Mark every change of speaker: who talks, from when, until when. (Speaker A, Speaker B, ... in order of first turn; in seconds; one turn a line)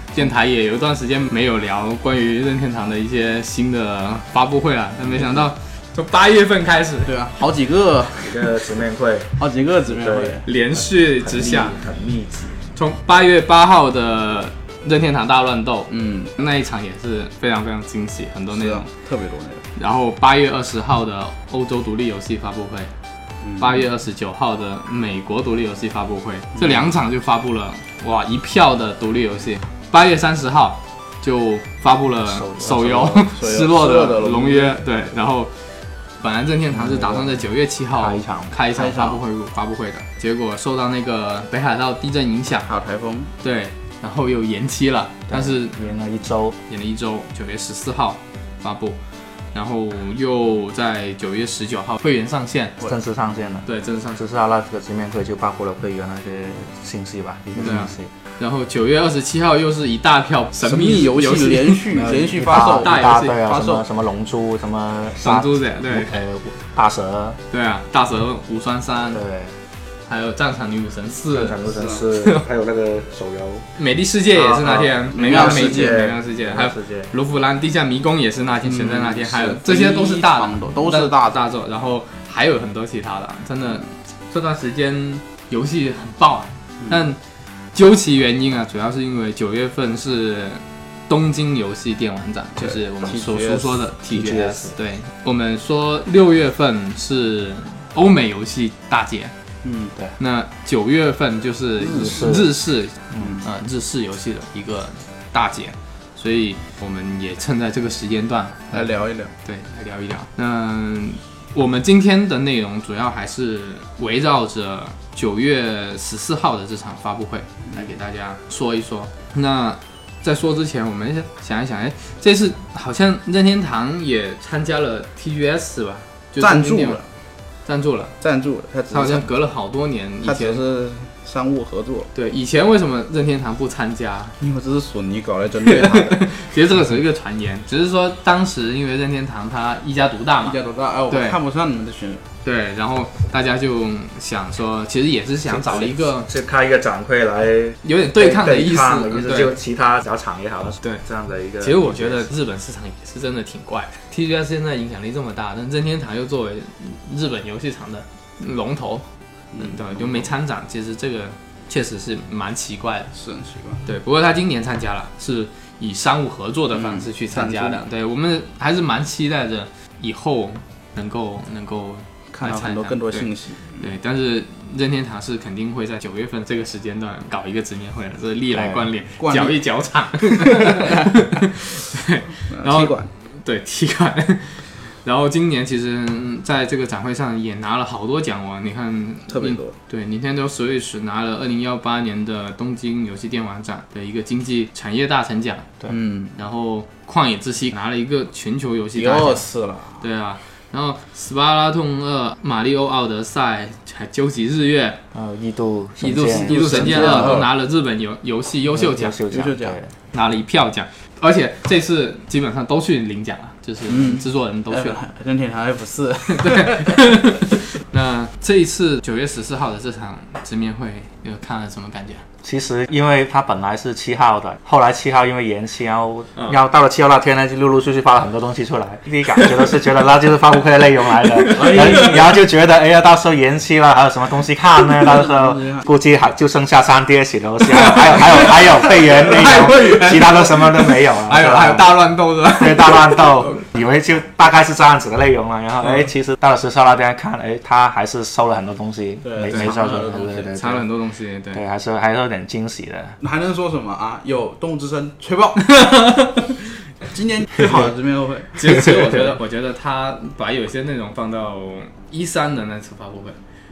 Speaker A: 0.1-7.2
Speaker B: 7.0-8.6
Speaker C: 8.2-12.6
Speaker B: 9.4-10.5
Speaker A: 10.4-11.8
Speaker A: 12.7-18.8
Speaker B: 15.9-16.3
Speaker B: 18.5-19.7
Speaker A: 19.8-22.9
Speaker B: 23.4-23.8
Speaker A: 23.6-35.6
Speaker C: 32.3-33.3
Speaker B: 33.3-34.8
Speaker A: 36.2-42.7
Speaker C: 36.7-37.4
Speaker C: 38.0-38.5
Speaker B: 38.7-39.2
Speaker B: 42.7-43.3
Speaker A: 43.4-45.8
Speaker C: 45.3-46.6
Speaker A: 46.7-49.0
Speaker A: 49.5-52.8
Speaker C: 52.8-58.1
Speaker A: 53.6-54.2
Speaker B: 57.6-57.9
Speaker A: 57.6-61.9
Speaker B: 60.6-63.9
Speaker C: 61.9-67.4
Speaker A: 62.5-63.4
Speaker A: 65.2-66.2
Speaker A: 67.5-69.2
Speaker C: 69.1-69.6
Speaker A: 70.1-71.6
Speaker C: 71.3-73.7
Speaker B: 71.7-72.0
Speaker A: 72.2-72.4
Speaker A: 73.8-87.2
Speaker C: 74.3-77.1
Speaker B: 75.1-76.0
Speaker B: 78.6-81.4
Speaker B: 86.8-87.0
Speaker A: 87.7-99.3
Speaker B: 92.6-93.9
Speaker C: 94.1-94.7
Speaker B: 99.6-99.9
Speaker A: 100.2-108.9
Speaker B: 101.9-102.3
Speaker C: 101.9-102.5
Speaker C: 103.1-103.4
Speaker B: 103.2-103.4
Speaker B: 108.7-109.3
Speaker A: 109.4-127.0
Speaker B: 126.4-127.1
Speaker A: 127.6-128.1
Speaker B: 128.2-129.3
Speaker A: 128.9-130.6
Speaker B: 130.2-132.1
Speaker A: 132.1-134.3
Speaker B: 134.4-136.2
Speaker A: 135.6-140.6
Speaker B: 140.4-142.2
Speaker A: 141.1-141.4
Speaker A: 142.4-146.3
Speaker C: 145.5-152.3
Speaker A: 147.8-149.5
Speaker A: 151.6-163.1
Speaker B: 159.5-160.3
Speaker B: 163.1-163.8
Speaker A: 163.8-195.7
Speaker B: 166.7-167.8
Speaker B: 172.3-173.8
Speaker C: 178.5-178.9
Speaker B: 179.2-179.6
Speaker B: 180.4-181.1
Speaker B: 182.5-183.1
Speaker B: 189.3-189.7
Speaker B: 195.9-196.4
Speaker A: 196.3-199.5
Speaker B: 198.9-200.0
Speaker A: 200.0-205.0
Speaker C: 205.1-207.5
Speaker A: 206.0-209.2
Speaker B: 206.3-207.5
Speaker C: 208.7-209.9
Speaker B: 209.3-209.8
Speaker A: 210.1-215.0
Speaker B: 213.9-217.1
Speaker A: 216.3-222.2
Speaker C: 222.4-250.8
Speaker A: 231.4-231.8
Speaker B: 231.5-232.4
Speaker B: 234.9-235.9
Speaker A: 237.8-243.6
Speaker B: 249.2-250.5
Speaker A: 249.5-251.6
Speaker C: 251.5-253.2
Speaker B: 253.2-255.8
Speaker A: 255.6-256.6
Speaker B: 257.1-259.3
Speaker A: 258.5-263.4